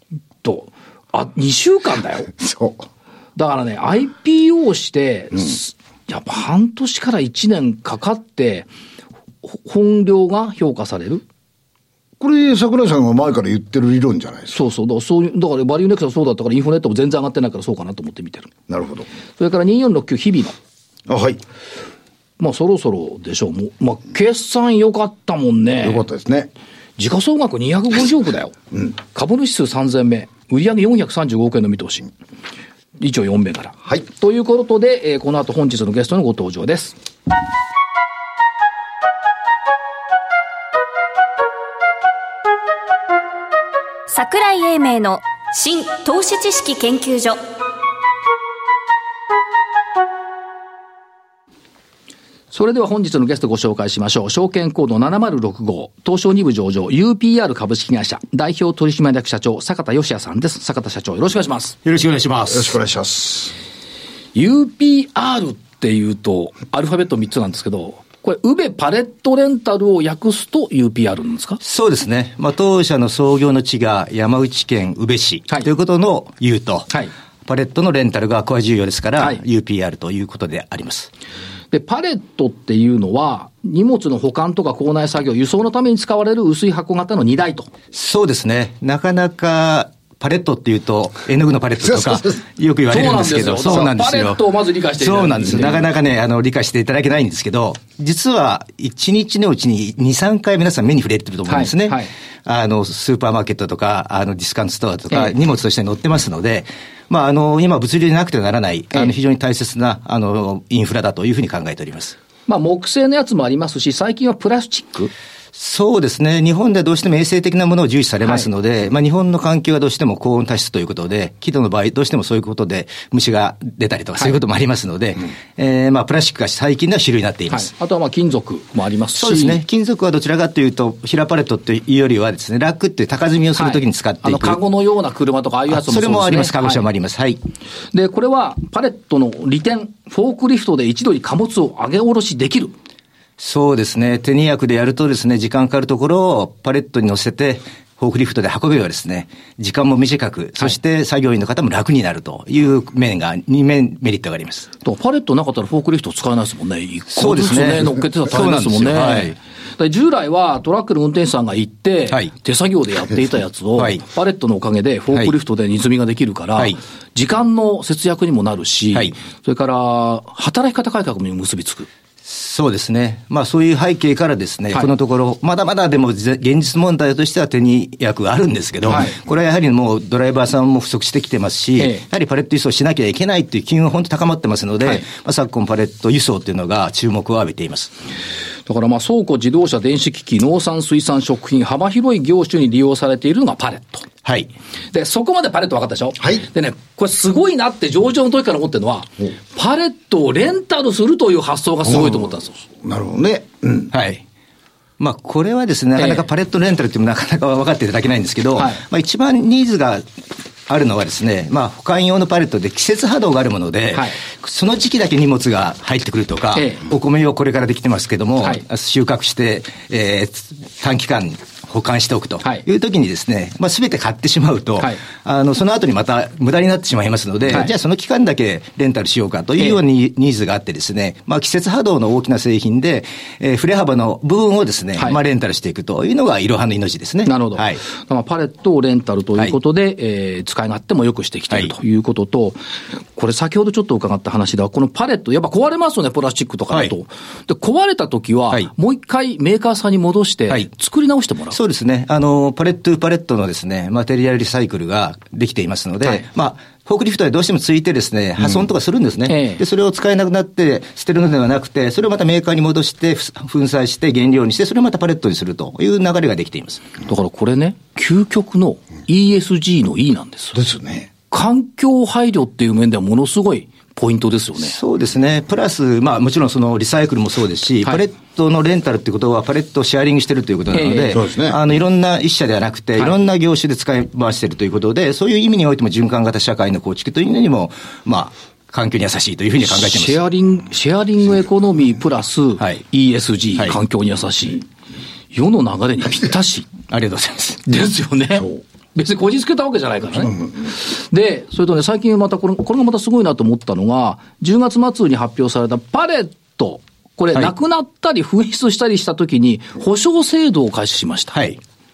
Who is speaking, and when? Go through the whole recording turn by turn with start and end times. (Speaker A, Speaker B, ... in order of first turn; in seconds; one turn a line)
Speaker A: 0.4-2.3
Speaker B: 2.3-2.9
Speaker A: 3.4-8.7
Speaker A: 9.4-11.2
Speaker B: 12.2-14.6
Speaker A: 14.5-18.5
Speaker B: 18.7-19.1
Speaker A: 19.4-20.6
Speaker B: 21.1-21.4
Speaker A: 22.4-26.0
Speaker B: 25.8-26.5
Speaker A: 27.0-32.1
Speaker A: 33.0-37.0
Speaker C: 44.1-47.4
Speaker A: 52.5-61.8
Speaker D: 61.8-62.7
Speaker B: 62.5-63.5
Speaker A: 64.3-71.6
Speaker D: 71.6-76.9
Speaker D: 77.4-81.1
Speaker A: 81.7-87.7
Speaker D: 87.9-94.4
Speaker B: 92.0-92.3
Speaker A: 92.9-95.8
Speaker D: 95.0-112.2
Speaker A: 101.5-102.1
Speaker A: 112.5-115.1
Speaker D: 115.5-127.7
Speaker A: 127.5-129.6
Speaker D: 129.2-134.6
Speaker A: 133.6-136.8
Speaker D: 135.7-137.4
Speaker A: 137.9-142.7
Speaker D: 143.4-154.7
Speaker A: 154.8-171.9
Speaker D: 157.1-159.3
Speaker D: 163.8-164.0
Speaker D: 172.2-187.9
Speaker A: 178.9-179.2
Speaker A: 181.8-182.0
Speaker A: 188.7-194.1
Speaker D: 194.2-194.5
Speaker A: 194.9-202.6
Speaker B: 201.9-202.2
Speaker B: 202.8-203.9
Speaker D: 203.9-204.2
Speaker D: 205.0-210.0
Speaker A: 206.0-206.2
Speaker D: 210.7-237.8
Speaker A: 216.5-216.8
Speaker A: 237.2-242.6
Speaker A: 243.2-251.6
Speaker D: 251.5-266.8
Speaker A: 259.3-259.6
Speaker A: 267.1-270.6
Speaker B: 270.5-271.1
Speaker A: 271.3-274.8
Speaker D: 274.6-290.2
Speaker A: 280.7-281.2
Speaker B: 281.1-281.6
Speaker A: 289.6-294.7
Speaker A: 295.3-296.7
Speaker D: 296.9-297.6
Speaker A: 297.6-311.4
Speaker D: 311.3-311.6